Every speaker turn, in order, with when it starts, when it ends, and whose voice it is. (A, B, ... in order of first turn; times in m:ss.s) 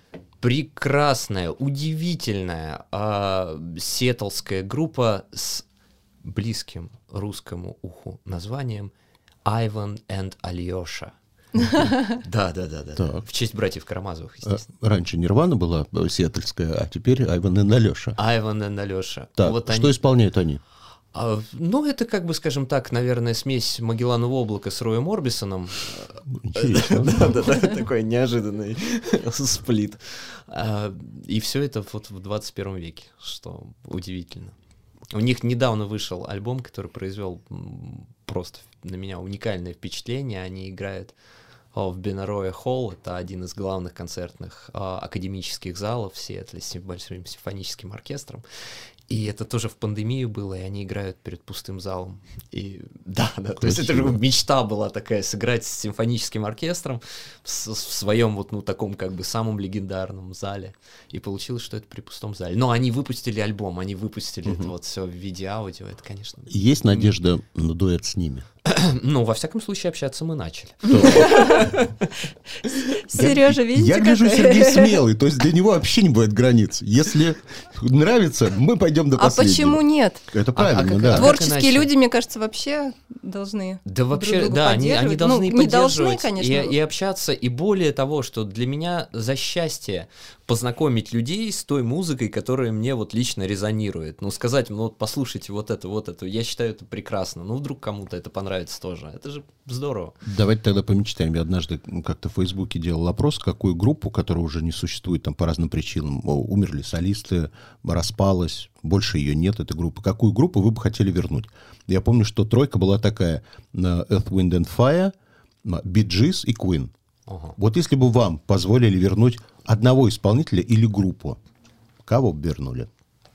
0:00.4-0:05.6 A
0:06.2-0:08.9 A
0:09.4-0:14.6 A
0:13.0-0:13.2 B
0:14.4-0:18.2 B
0:18.2-0:20.0 A
0:19.4-0:20.6 B
0:21.1-0:34.5 A
0:26.3-0:27.4 B
0:35.1-0:41.1 A
0:41.7-0:48.4 A
0:49.1-1:07.1 A
0:53.6-0:54.2 B
1:06.5-1:08.4 B
1:08.6-1:12.0 A
1:10.9-1:11.4 B
1:11.0-1:11.7 C
1:12.6-1:15.0 C
1:13.1-1:21.3 B
1:19.1-1:20.2 C
1:20.5-1:21.9 A
1:21.1-1:26.7 C
1:23.8-1:40.2 A
1:40.2-1:56.9 B
1:57.3-1:57.6 A
1:57.6-2:01.4 B
2:02.0-2:02.9 B